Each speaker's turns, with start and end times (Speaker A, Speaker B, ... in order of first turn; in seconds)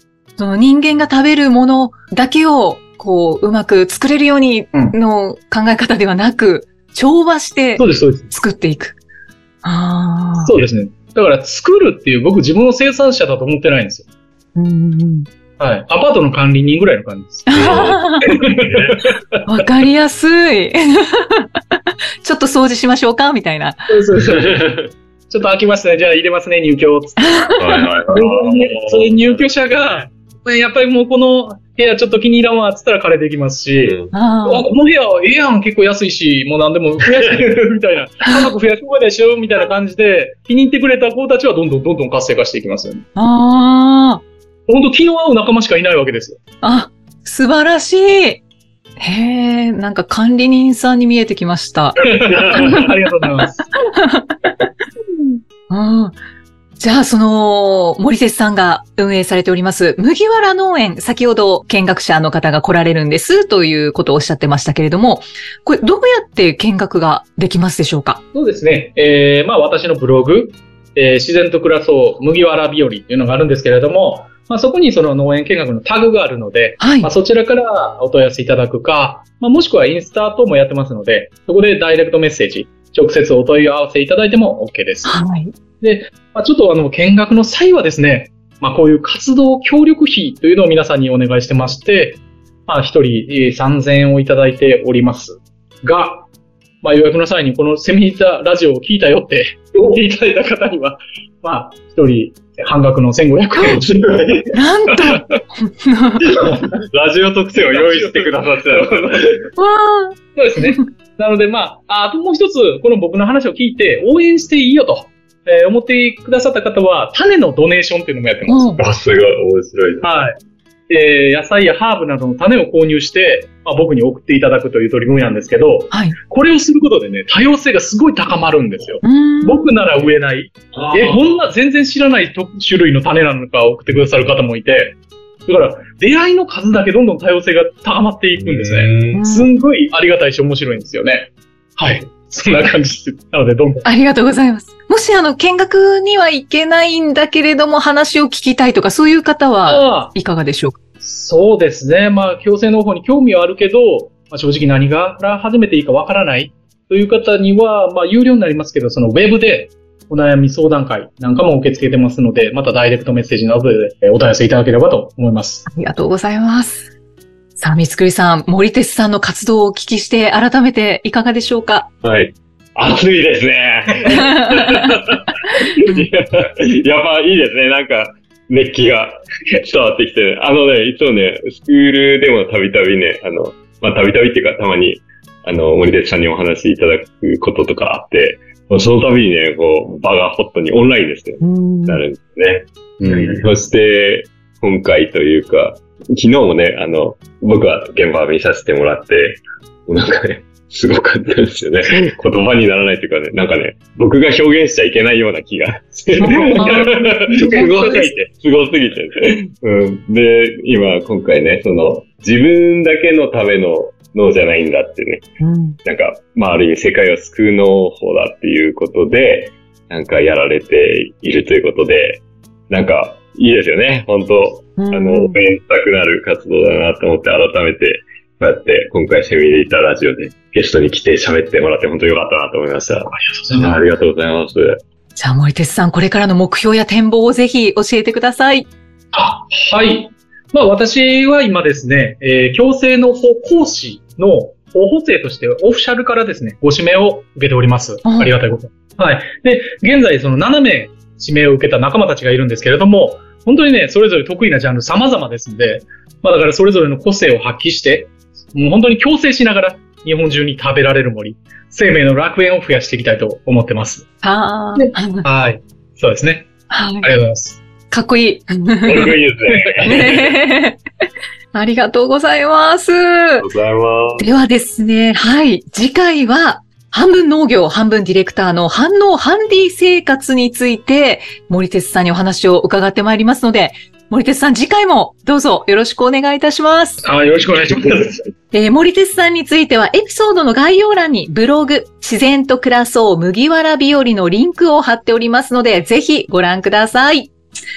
Speaker A: 0.4-9.0, 9.6-10.5, 14.6-15.3, 17.5-18.3, 19.4-21.5, 22.2-23.9, 27.2-27.9, 34.1-34.7, 43.1-44.2, 46.6-48.4, 49.0-52.9, 53.8-54.4, 55.1-56.2, 56.8-68.2, 76.8-77.1, 85.0-85.5, 104.5-106.3, 109.5-110.8, 118.5-118.8, 129.0-129.7, 139.1-139.5, 143.8-150.8, 165.7-166.9, 167.6-171.9, 174.1-175.0, 175.7-176.0, 191.4-192.0, 206.2-208.1, 215.4-215.8, 224.8-225.4, 235.2-238.7, 248.0-248.3, 264.2-265.2, 266.7-267.1, 267.9-269.1, 269.8-270.8, 271.5-273.4, 274.2-287.0, 288.5-297.3
Speaker B: 7.8-8.3, 10.4-14.0, 15.6-17.7, 18.2-19.4, 23.9-43.0, 44.7-46.4, 52.0-53.6, 68.3-85.2, 85.8-96.3, 96.8-104.4, 107.7-109.4, 110.3-118.7, 120.0-120.3, 120.9-143.8, 149.6-150.1, 151.0-165.7, 193.0-193.4, 206.2-208.1, 233.1-233.8, 239.1-264.1, 264.8-266.5, 267.0-267.6, 269.5-269.8, 287.0-288.2
Speaker C: 17.5-19.0, 24.4-24.8, 27.6-30.0, 33.8-34.1, 52.2-52.9, 103.7-104.5, 106.3-109.5, 118.8-120.1, 130.8-131.3, 138.3-139.2, 172.0-215.3, 215.8-234.8, 268.8-270.4, 273.4-274.3